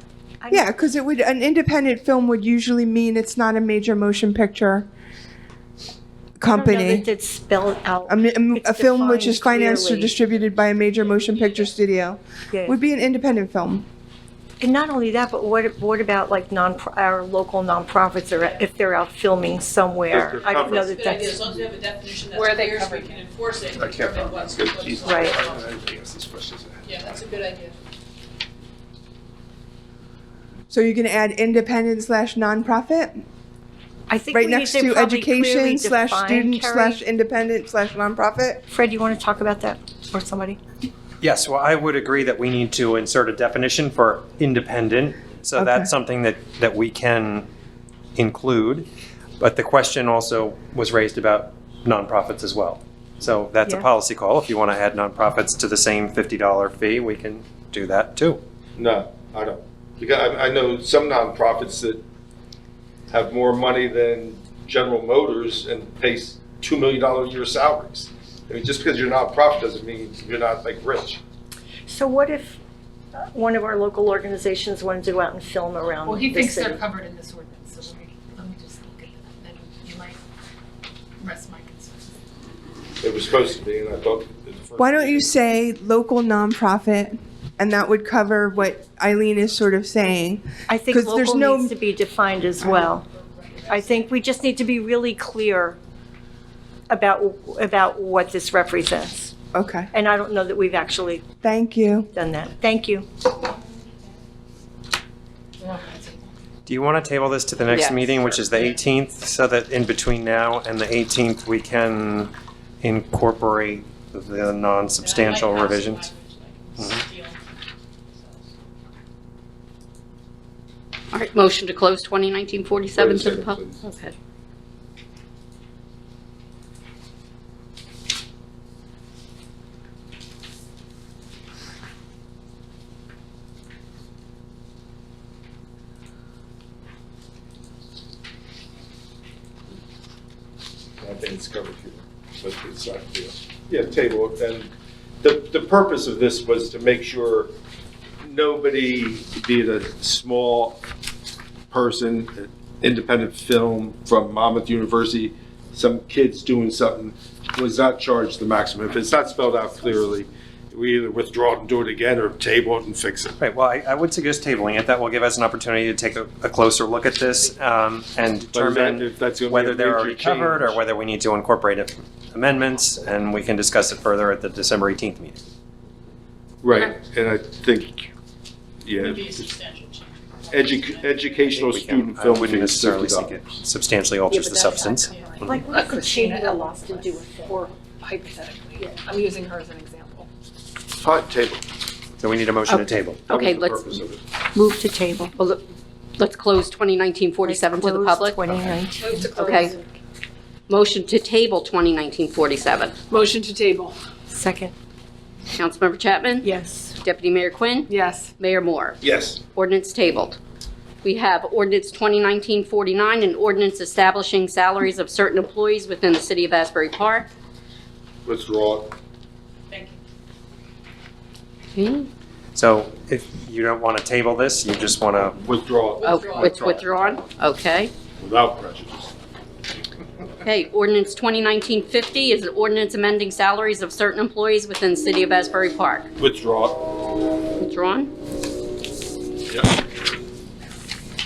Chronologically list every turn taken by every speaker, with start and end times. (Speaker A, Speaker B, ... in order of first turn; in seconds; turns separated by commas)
Speaker A: 0.4-0.8, Speaker B: 0.5-4.9, Speaker B: 6.4-7.1, Speaker A: 6.5-10.2, Speaker B: 8.1-13.8, Speaker A: 12.5-12.8, Speaker A: 14.6-21.5, Speaker C: 20.1-21.0, Speaker D: 20.4-25.6, Speaker E: 22.3-23.5, Speaker C: 23.8-26.9, Speaker A: 25.0-25.4, Speaker D: 26.8-27.8, Speaker B: 30.7-33.2, Speaker A: 34.1-37.0, Speaker B: 34.3-38.6, Speaker A: 38.7-40.6, Speaker F: 41.2-47.5, Speaker B: 45.5-45.9, Speaker F: 48.1-48.9, Speaker F: 49.4-58.4, Speaker C: 58.8-62.0, Speaker C: 63.1-71.2, Speaker A: 71.9-72.6, Speaker A: 73.3-76.8, Speaker E: 76.0-80.2, Speaker E: 81.2-82.1, Speaker C: 83.0-85.3, Speaker B: 84.8-91.7, Speaker A: 90.7-93.0, Speaker B: 92.6-92.9, Speaker E: 93.2-93.8, Speaker A: 93.7-95.8, Speaker A: 96.9-99.3, Speaker B: 99.5-99.9, Speaker A: 99.9-101.3, Speaker B: 101.4-102.1, Speaker A: 102.1-103.1, Speaker E: 105.6-106.3, Speaker F: 106.7-116.0, Speaker G: 107.7-108.4, Speaker D: 115.0-117.4, Speaker F: 116.8-117.0, Speaker D: 118.2-118.5, Speaker G: 121.1-124.1, Speaker C: 123.0-123.8, Speaker C: 141.0-144.7, Speaker C: 145.2-147.5, Speaker C: 148.2-150.8, Speaker C: 151.7-163.4, Speaker F: 163.4-175.4, Speaker C: 168.5-170.8, Speaker C: 176.6-178.1, Speaker C: 178.8-179.5, Speaker E: 179.0-181.5, Speaker C: 180.5-183.4, Speaker F: 181.5-185.6, Speaker E: 184.3-190.3, Speaker A: 185.4-187.8, Speaker C: 190.9-191.6, Speaker F: 192.2-193.3, Speaker G: 193.3-194.0, Speaker C: 193.3-194.2, Speaker A: 194.5-195.3, Speaker G: 195.3-195.6, Speaker G: 196.2-198.4, Speaker A: 197.4-199.7, Speaker E: 199.0-199.8, Speaker G: 199.3-199.7, Speaker G: 200.7-202.9, Speaker E: 203.1-204.0, Speaker A: 204.3-204.7, Speaker G: 205.5-206.5, Speaker A: 206.4-207.0, Speaker G: 207.0-209.0, Speaker E: 207.9-208.3, Speaker C: 209.0-209.4, Speaker G: 209.5-210.4, Speaker G: 211.0-217.3, Speaker C: 218.2-218.9, Speaker D: 219.7-220.0, Speaker G: 221.7-222.1, Speaker F: 222.5-225.4, Speaker C: 225.4-227.2, Speaker D: 225.9-226.4, Speaker G: 226.0-227.9, Speaker C: 228.2-229.1, Speaker G: 230.4-236.1, Speaker C: 236.2-236.9, Speaker G: 237.6-238.1